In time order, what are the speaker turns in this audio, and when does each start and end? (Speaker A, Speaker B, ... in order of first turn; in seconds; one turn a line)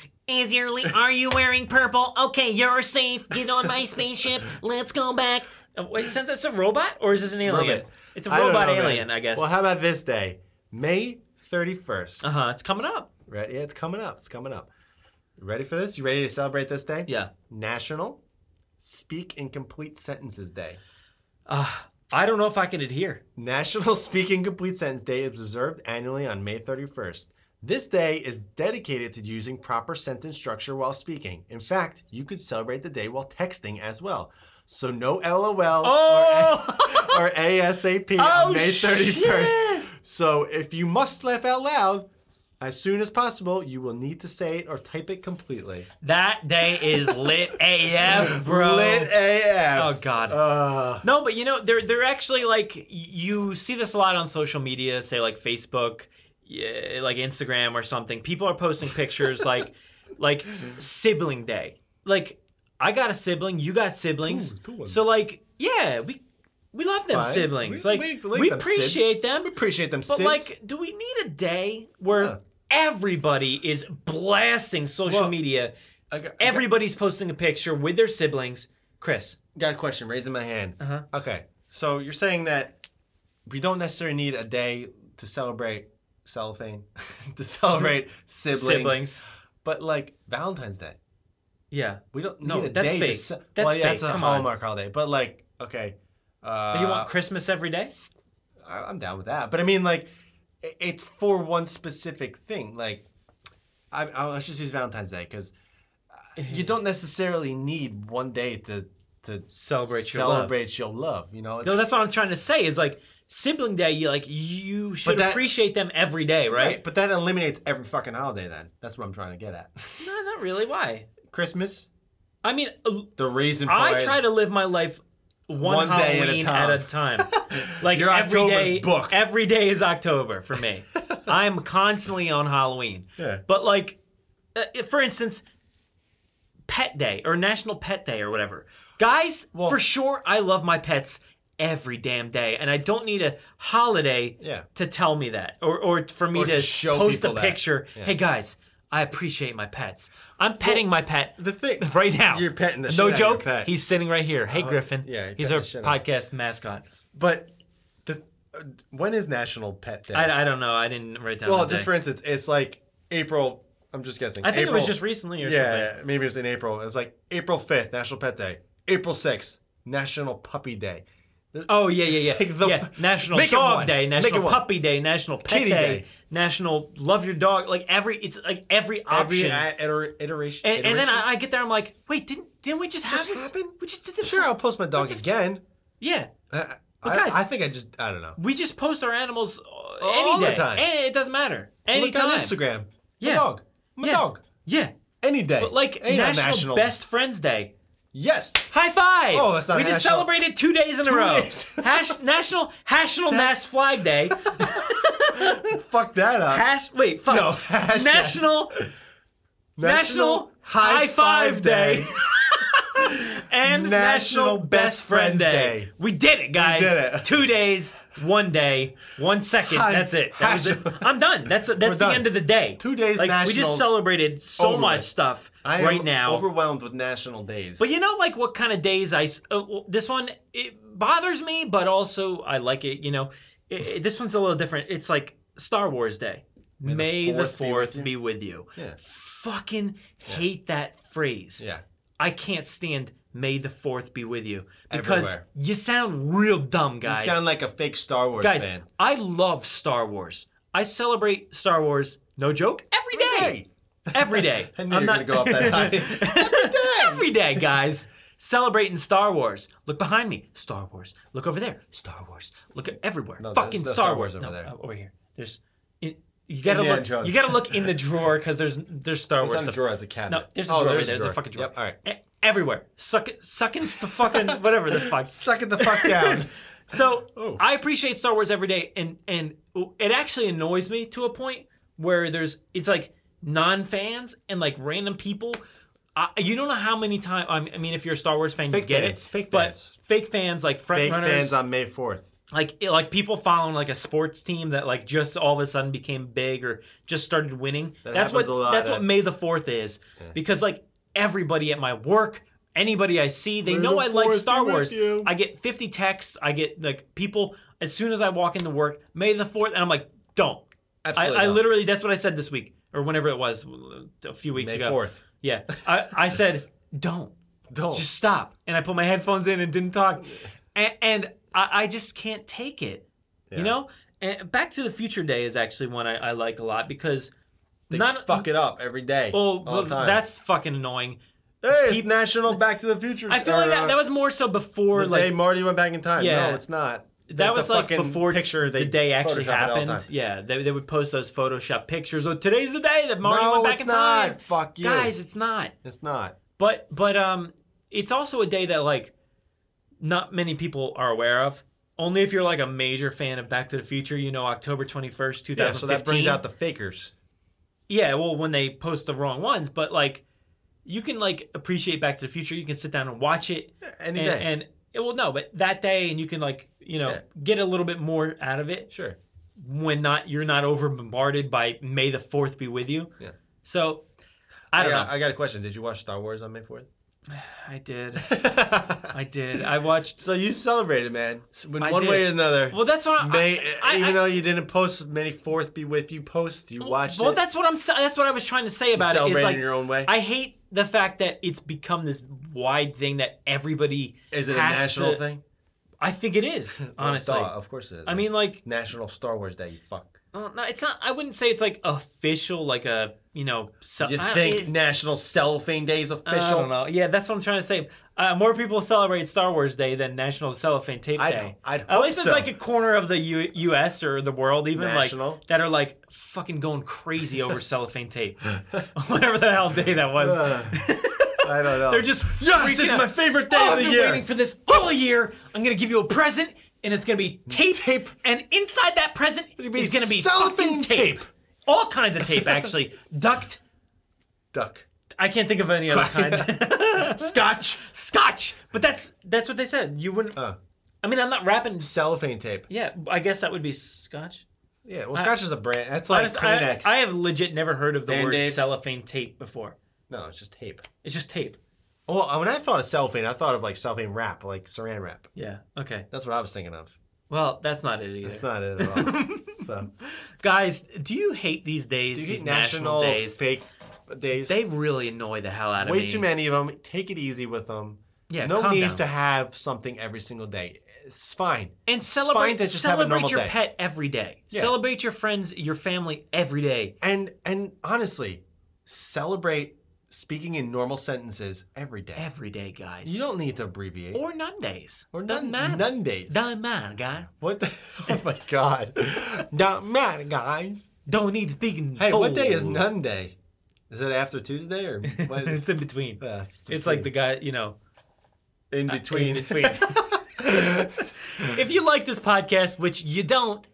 Speaker A: 0.3-9.5
Speaker B: 3.4-3.7
Speaker B: 7.4-12.3
Speaker A: 12.2-13.1
Speaker B: 13.3-14.7
Speaker B: 15.4-18.2
Speaker B: 18.8-20.8
Speaker A: 21.5-23.2
Speaker B: 23.4-42.1
Speaker A: 35.8-37.2
Speaker A: 38.2-39.9
Speaker B: 42.6-45.9
Speaker A: 46.0-49.1
Speaker B: 46.7-47.4
Speaker B: 48.0-51.0
Speaker A: 49.7-50.4
Speaker A: 51.0-66.2
Speaker B: 64.2-65.1
Speaker A: 66.7-69.5
Speaker B: 67.1-70.5
Speaker A: 70.1-75.7
Speaker B: 72.1-72.4
Speaker B: 75.1-75.3
Speaker B: 76.1-76.7
Speaker A: 76.4-79.4
Speaker B: 79.5-82.8
Speaker A: 80.8-81.0
Speaker B: 83.5-89.1
Speaker A: 88.5-89.2
Speaker B: 89.6-91.0
Speaker A: 91.7-94.5
Speaker B: 92.1-97.1
Speaker A: 96.7-97.9
Speaker B: 98.6-100.1
Speaker B: 100.6-103.0
Speaker B: 103.9-105.5
Speaker B: 106.2-111.8
Speaker A: 106.4-106.7
Speaker A: 109.5-110.5
Speaker A: 111.6-116.8
Speaker B: 115.0-115.5
Speaker B: 116.5-120.1
Speaker A: 120.0-121.1
Speaker B: 121.2-121.9
Speaker A: 122.4-123.1
Speaker B: 123.2-124.2
Speaker A: 123.7-134.0
Speaker B: 125.6-129.2
Speaker B: 130.9-131.3
Speaker B: 133.2-133.4
Speaker A: 134.5-135.4
Speaker A: 136.7-156.8
Speaker B: 139.5-139.8
Speaker B: 144.4-144.7
Speaker B: 146.3-148.2
Speaker B: 151.4-153.7
Speaker B: 154.5-156.0
Speaker B: 157.1-157.5
Speaker B: 158.0-160.3
Speaker A: 160.1-161.9
Speaker B: 161.4-174.6
Speaker A: 164.4-165.9
Speaker A: 171.7-179.7
Speaker B: 175.4-176.1
Speaker B: 179.1-181.2
Speaker A: 180.6-185.3
Speaker B: 183.1-185.6
Speaker A: 186.0-186.3
Speaker B: 186.5-188.4
Speaker A: 187.0-187.4
Speaker A: 188.4-192.6
Speaker B: 190.0-190.9
Speaker B: 191.9-194.4
Speaker A: 193.2-193.5
Speaker A: 194.0-194.9
Speaker B: 195.2-196.9
Speaker A: 195.6-197.7
Speaker B: 198.1-198.7
Speaker A: 198.7-205.7
Speaker B: 199.3-200.3
Speaker B: 201.0-202.2
Speaker B: 203.2-203.5
Speaker B: 204.3-206.6
Speaker A: 206.5-208.8
Speaker B: 207.2-208.6
Speaker B: 209.8-215.9
Speaker A: 209.8-226.4
Speaker B: 216.5-217.4
Speaker B: 219.6-224.0
Speaker B: 224.6-225.1
Speaker B: 225.6-227.9
Speaker A: 227.8-241.6
Speaker B: 236.8-238.1
Speaker A: 242.2-247.4
Speaker B: 244.9-245.4
Speaker B: 247.0-248.8
Speaker A: 248.4-253.6
Speaker B: 253.1-257.6
Speaker A: 254.1-285.6
Speaker B: 263.4-264.7
Speaker B: 266.6-267.9
Speaker B: 269.4-272.0
Speaker B: 274.0-277.6
Speaker A: 286.1-291.6
Speaker B: 288.7-289.9
Speaker B: 290.9-292.3
Speaker A: 292.5-317.3
Speaker B: 298.0-299.1
Speaker B: 303.6-305.3
Speaker B: 311.0-311.6
Speaker B: 314.5-315.2
Speaker B: 317.7-318.1
Speaker A: 317.9-327.3
Speaker B: 323.5-323.7
Speaker B: 327.9-330.2
Speaker A: 327.9-328.5
Speaker A: 329.3-332.6
Speaker B: 331.6-334.0
Speaker A: 333.3-335.3
Speaker B: 334.9-340.1
Speaker A: 336.2-336.6
Speaker A: 337.3-345.7
Speaker B: 343.2-345.1
Speaker B: 345.8-346.4
Speaker A: 346.6-349.1
Speaker A: 350.0-356.4
Speaker B: 355.6-357.1
Speaker A: 357.9-360.2
Speaker A: 360.8-368.9
Speaker B: 363.8-364.5
Speaker B: 368.9-369.2
Speaker A: 369.6-373.1
Speaker A: 373.6-374.0
Speaker A: 374.7-375.1
Speaker B: 374.7-376.9
Speaker A: 377.3-378.3
Speaker B: 378.2-379.1
Speaker A: 379.1-380.2
Speaker B: 380.1-387.4
Speaker A: 381.8-384.2
Speaker A: 386.8-395.2
Speaker B: 388.9-390.1
Speaker B: 394.3-395.4
Speaker A: 396.0-397.5
Speaker B: 396.8-400.2
Speaker A: 398.1-398.6
Speaker A: 400.3-404.7
Speaker B: 404.0-406.7
Speaker A: 406.2-433.6
Speaker B: 411.2-412.5
Speaker B: 414.7-415.4
Speaker B: 420.2-420.8
Speaker B: 421.4-424.2
Speaker B: 427.5-428.1
Speaker B: 429.6-431.2
Speaker B: 432.2-432.7
Speaker B: 434.5-434.9
Speaker A: 435.2-440.4
Speaker B: 435.9-437.8
Speaker A: 441.0-441.9
Speaker B: 441.8-442.6
Speaker A: 442.7-444.4
Speaker B: 444.8-447.0
Speaker A: 446.1-449.8
Speaker B: 448.1-448.6
Speaker B: 450.1-450.9
Speaker A: 451.0-451.6
Speaker B: 452.1-455.3
Speaker A: 455.4-456.1
Speaker B: 456.1-456.9
Speaker A: 457.3-463.4
Speaker B: 458.2-459.9
Speaker B: 462.1-464.6
Speaker A: 464.4-466.3
Speaker B: 465.8-473.5
Speaker A: 468.3-469.0
Speaker A: 471.9-476.9
Speaker B: 477.0-482.3
Speaker A: 482.1-483.2
Speaker B: 483.0-484.2
Speaker A: 484.1-487.3
Speaker B: 485.1-486.5
Speaker B: 487.3-490.9
Speaker A: 491.1-492.9
Speaker B: 492.0-493.4
Speaker B: 493.9-495.6
Speaker A: 495.1-497.8
Speaker B: 496.2-497.1
Speaker B: 498.7-501.6
Speaker A: 498.9-500.7
Speaker A: 501.3-503.6